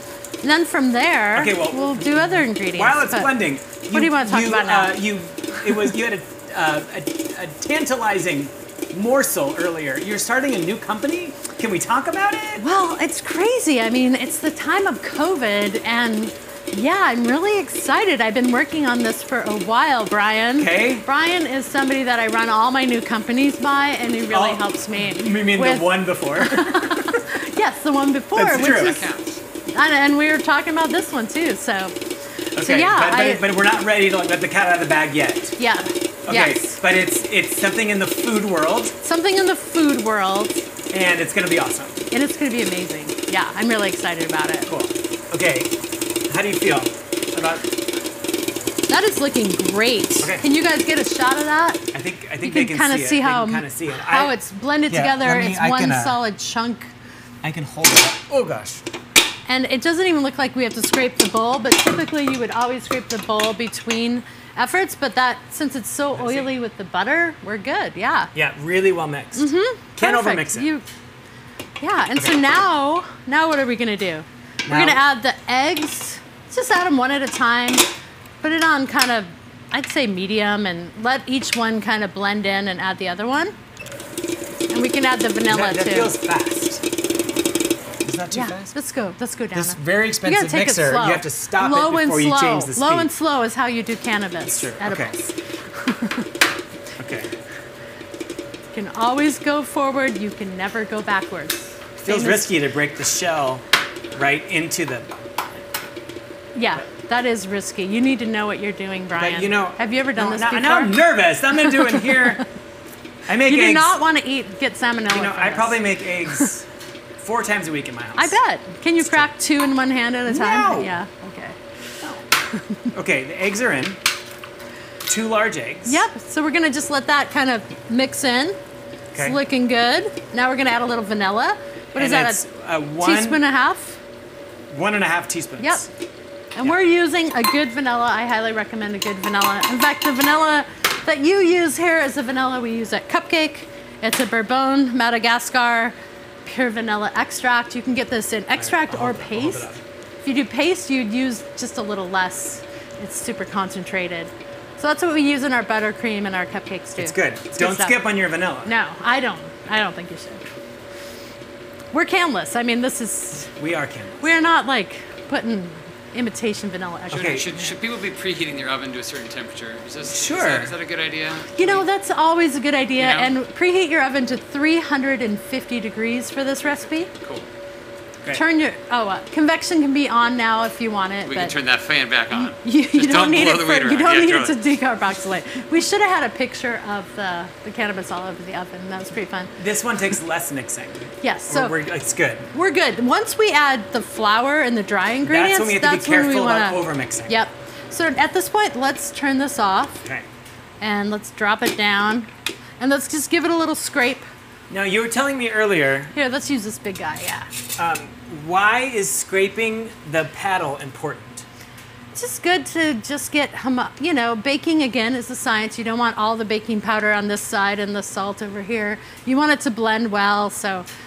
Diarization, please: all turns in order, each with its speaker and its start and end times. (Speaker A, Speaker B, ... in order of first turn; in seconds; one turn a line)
Speaker A: 0.4-3.3
Speaker B: 1.3-12.6
Speaker A: 3.9-5.0
Speaker A: 5.6-5.9
Speaker A: 12.6-29.1
Speaker B: 20.6-21.1
Speaker B: 24.3-27.2
Speaker B: 28.4-29.1
Speaker C: 28.6-29.4
Speaker A: 29.7-31.9
Speaker A: 32.5-33.4
Speaker B: 32.5-35.6
Speaker A: 35.6-36.7
Speaker B: 36.3-39.0
Speaker A: 39.0-40.6
Speaker B: 40.9-42.0
Speaker A: 42.1-44.7
Speaker B: 44.7-45.7
Speaker B: 46.3-47.7
Speaker A: 48.9-51.9
Speaker B: 51.9-54.3
Speaker A: 52.4-56.9
Speaker B: 54.9-56.2
Speaker B: 57.4-58.8
Speaker A: 59.5-68.3
Speaker B: 66.2-66.5
Speaker B: 68.3-70.7
Speaker A: 69.3-70.8
Speaker A: 71.8-77.8
Speaker B: 74.6-75.0
Speaker A: 78.4-83.5
Speaker A: 84.7-86.1
Speaker B: 85.5-86.8
Speaker B: 88.0-88.7
Speaker A: 88.3-96.3
Speaker B: 89.5-93.1
Speaker B: 94.5-95.1
Speaker B: 97.0-97.3
Speaker A: 98.7-102.5
Speaker B: 102.0-105.1
Speaker A: 106.5-111.0
Speaker B: 109.1-112.4
Speaker A: 111.5-112.4
Speaker B: 113.3-114.0
Speaker A: 113.5-116.5
Speaker B: 115.1-116.7
Speaker B: 117.2-118.3
Speaker A: 118.2-121.6
Speaker B: 119.0-119.3
Speaker B: 120.3-120.9
Speaker A: 122.5-122.9
Speaker B: 122.9-124.0
Speaker B: 125.1-126.0
Speaker A: 125.8-128.6
Speaker B: 129.1-129.4
Speaker A: 129.2-132.4
Speaker B: 131.9-133.4
Speaker A: 133.0-134.0
Speaker B: 134.7-135.9
Speaker A: 135.6-135.8
Speaker A: 136.5-149.7
Speaker B: 148.6-149.8
Speaker A: 150.2-158.0
Speaker B: 157.0-158.7
Speaker A: 158.6-160.4
Speaker A: 161.9-163.5
Speaker B: 163.6-164.3
Speaker A: 164.2-167.5
Speaker B: 167.1-167.7
Speaker C: 167.2-171.8
Speaker B: 170.1-170.7
Speaker A: 171.5-177.1
Speaker C: 173.0-173.3
Speaker C: 176.6-177.5
Speaker A: 178.3-181.5
Speaker C: 181.3-184.7
Speaker A: 182.3-189.5
Speaker B: 189.6-192.5
Speaker A: 191.2-191.8
Speaker A: 192.5-200.1
Speaker B: 195.2-197.4
Speaker A: 200.8-202.3
Speaker A: 202.8-204.3
Speaker B: 204.7-206.1
Speaker A: 206.1-207.5
Speaker B: 207.8-211.4
Speaker A: 212.1-220.8